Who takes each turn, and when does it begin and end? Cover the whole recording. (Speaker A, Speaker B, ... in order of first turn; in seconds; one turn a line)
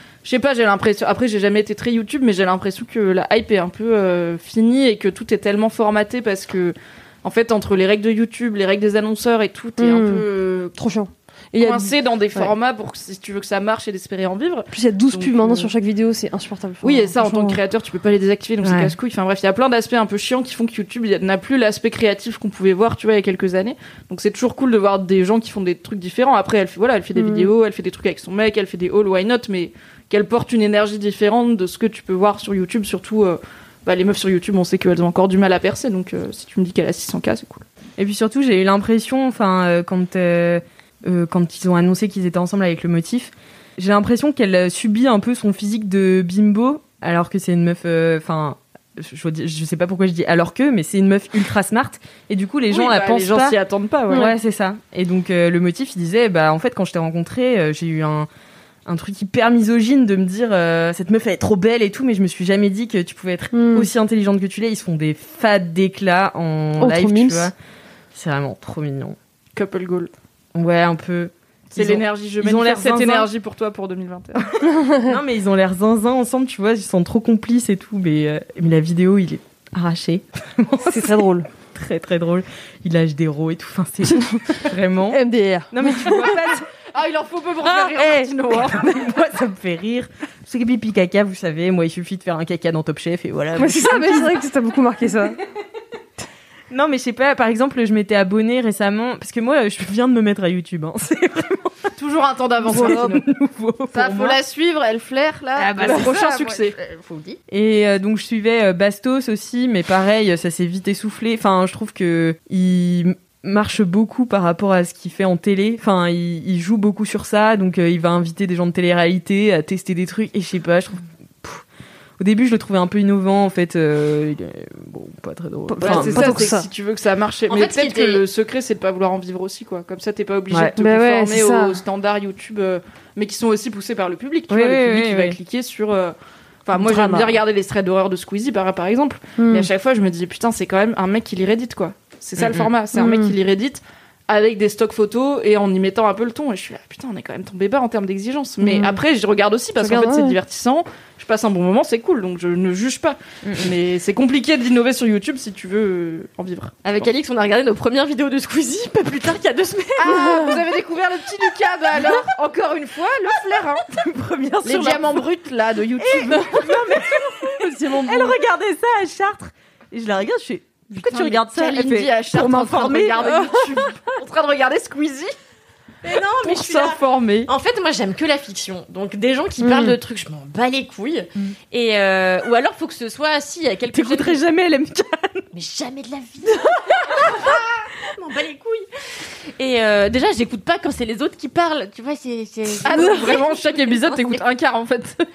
Speaker A: 0.2-10.8
Speaker B: 9.8-12.5
Speaker A: 11.6-15.7
Speaker B: 14.7-17.6
Speaker A: 16.8-37.6
Speaker C: 18.6-18.9
Speaker B: 27.1-27.5
Speaker C: 38.0-53.6
Speaker A: 52.7-54.3
Speaker C: 54.1-58.3
Speaker C: 58.9-67.5
Speaker B: 63.5-63.9
Speaker B: 66.8-67.5
Speaker C: 68.1-69.2
Speaker A: 69.5-70.1
Speaker C: 70.5-73.3
Speaker A: 71.7-74.5
Speaker C: 74.4-86.6
Speaker B: 74.7-75.1
Speaker B: 80.8-81.5
Speaker B: 84.1-84.4
Speaker B: 85.1-86.5
Speaker A: 86.9-89.0
Speaker C: 88.0-94.4
Speaker B: 93.6-95.4
Speaker C: 96.7-101.9
Speaker A: 102.0-103.2
Speaker C: 102.6-104.4
Speaker B: 102.7-103.1
Speaker A: 103.9-106.8
Speaker C: 105.5-121.6
Speaker C: 122.2-126.5
Speaker B: 125.7-126.7
Speaker A: 125.8-156.8
Speaker D: 127.5-128.2
Speaker C: 130.5-130.8
Speaker B: 130.8-131.8
Speaker C: 134.5-135.4
Speaker B: 136.7-137.3
Speaker B: 139.4-139.7
Speaker C: 142.4-142.7
Speaker B: 142.9-143.3
Speaker B: 148.6-149.0
Speaker B: 149.8-150.4
Speaker C: 153.4-153.7
Speaker D: 156.8-160.5
Speaker A: 160.0-163.8
Speaker B: 160.0-160.6
Speaker C: 163.9-165.2
Speaker A: 164.6-166.9
Speaker C: 166.0-173.5
Speaker B: 167.6-168.3
Speaker A: 171.0-175.3
Speaker B: 173.2-173.7
Speaker D: 176.0-184.4
Speaker A: 176.4-177.5
Speaker B: 179.6-179.9
Speaker C: 183.9-185.5
Speaker D: 185.5-194.4
Speaker A: 192.8-195.2
Speaker B: 192.9-193.2